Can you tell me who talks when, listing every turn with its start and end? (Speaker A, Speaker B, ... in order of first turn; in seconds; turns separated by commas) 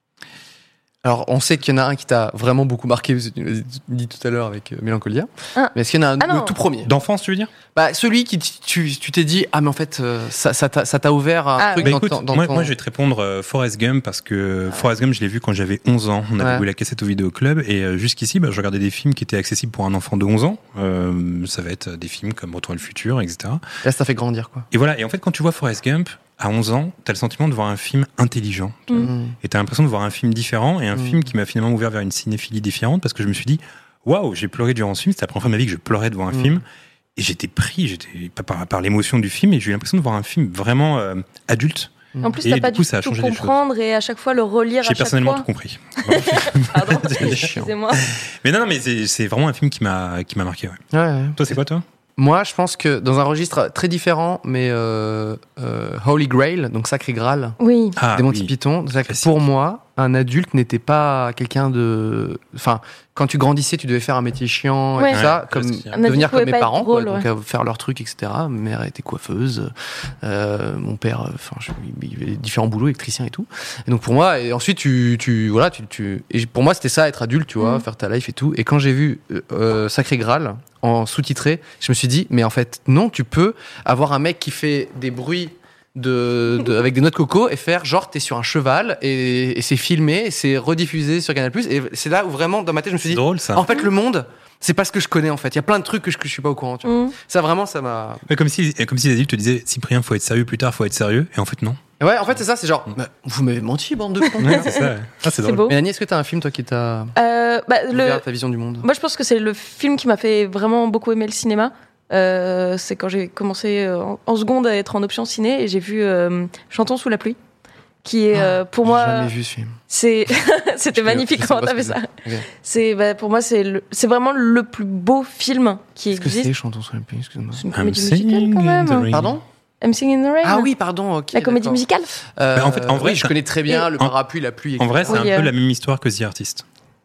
Speaker A: 1.0-6.9, Speaker B: 5.5-6.5, Speaker C: 6.8-7.5, Speaker A: 7.7-12.7, Speaker B: 11.6-11.9, Speaker C: 11.8-23.6, Speaker A: 16.4-16.6, Speaker A: 23.8-24.7, Speaker C: 24.7-36.6, Speaker A: 29.0-29.3, Speaker A: 36.3-36.6, Speaker C: 37.1-43.6, Speaker B: 42.2-45.4, Speaker C: 44.8-50.8, Speaker B: 46.0-48.1, Speaker A: 47.1-47.7, Speaker A: 50.9-51.4, Speaker C: 51.4-51.8, Speaker A: 52.2-57.6, Speaker B: 57.6-58.0, Speaker C: 58.0-58.5, Speaker A: 58.1-98.2, Speaker C: 59.0-59.3, Speaker C: 65.1-66.0, Speaker B: 65.9-67.2, Speaker C: 93.1-93.6, Speaker B: 96.8-97.1, Speaker C: 98.3-101.8, Speaker A: 102.0-104.7, Speaker B: 104.3-105.7, Speaker C: 104.4-105.7, Speaker A: 105.6-107.1, Speaker B: 107.1-108.2, Speaker A: 107.9-108.9, Speaker B: 108.8-117.4, Speaker B: 118.0-119.3, Speaker A: 118.3-119.8, Speaker B: 119.9-126.5, Speaker A: 120.9-122.5, Speaker A: 126.1-127.6, Speaker B: 127.5-129.1, Speaker C: 127.7-129.4, Speaker A: 129.1-129.4, Speaker B: 129.8-130.7, Speaker A: 130.4-131.8, Speaker B: 131.3-132.1, Speaker A: 132.3-135.2, Speaker C: 132.5-133.3, Speaker C: 134.8-136.6, Speaker B: 135.1-135.5